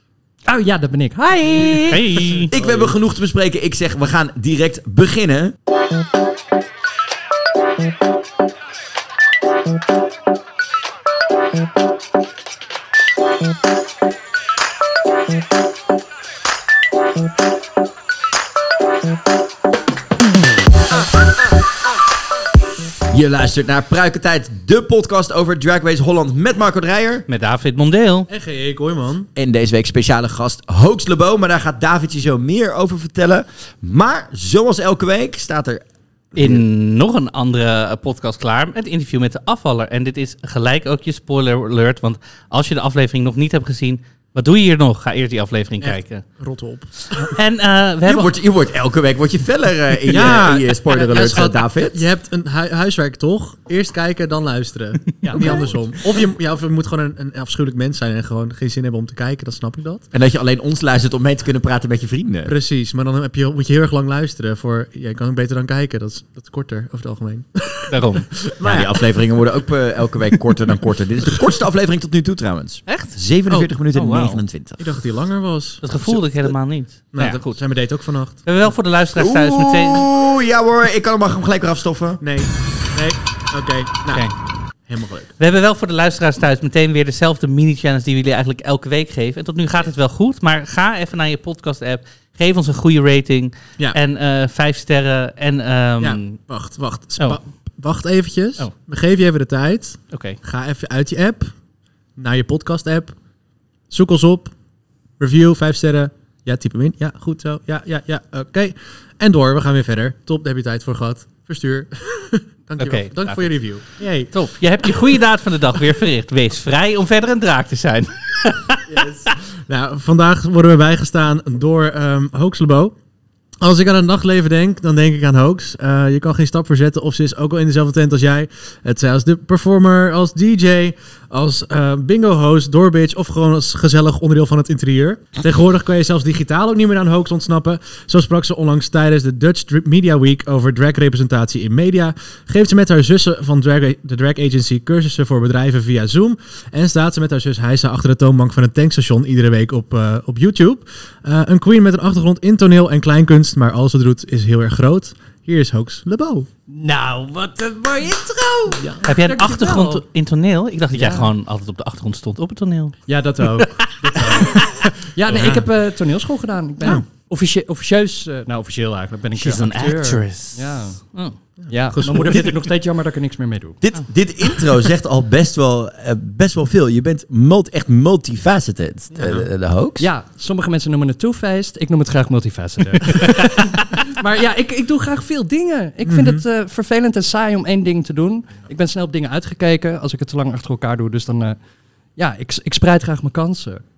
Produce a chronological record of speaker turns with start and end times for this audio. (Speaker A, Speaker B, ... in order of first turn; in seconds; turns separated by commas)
Speaker A: 0.4-2.0, Speaker B: 1.5-2.9, Speaker C: 1.9-2.5, Speaker D: 2.5-5.5, Speaker D: 23.1-27.2, Speaker C: 27.3-28.3, Speaker B: 28.3-29.3, Speaker D: 29.4-35.8, Speaker C: 36.4-46.2, Speaker D: 36.4-36.6, Speaker B: 45.8-47.2, Speaker C: 47.1-48.3, Speaker D: 48.0-52.0, Speaker B: 50.1-60.0, Speaker A: 55.2-55.7, Speaker C: 55.3-55.7, Speaker D: 60.1-62.5, Speaker B: 62.5-69.1, Speaker C: 67.9-68.3, Speaker D: 68.6-74.8, Speaker C: 72.9-73.1, Speaker C: 74.0-74.3, Speaker B: 74.8-76.5, Speaker C: 75.8-80.1, Speaker B: 77.1-78.5, Speaker D: 79.2-82.2, Speaker B: 82.2-84.3, Speaker C: 84.1-84.3, Speaker B: 84.8-85.3, Speaker C: 85.4-96.5, Speaker B: 96.0-101.5, Speaker C: 100.1-100.4, Speaker B: 102.2-103.2, Speaker B: 103.9-104.5, Speaker B: 105.2-114.3, Speaker C: 112.8-113.8, Speaker C: 114.3-118.8, Speaker B: 118.9-122.9, Speaker B: 123.6-156.5, Speaker A: 156.7-160.0, Speaker C: 159.0-163.0, Speaker A: 160.9-161.3, Speaker A: 163.1-173.8, Speaker B: 165.3-165.6, Speaker C: 169.3-171.4, Speaker B: 171.6-172.6, Speaker D: 173.8-180.1, Speaker B: 179.1-179.5, Speaker A: 180.0-191.6, Speaker B: 186.1-186.4, Speaker A: 192.2-193.8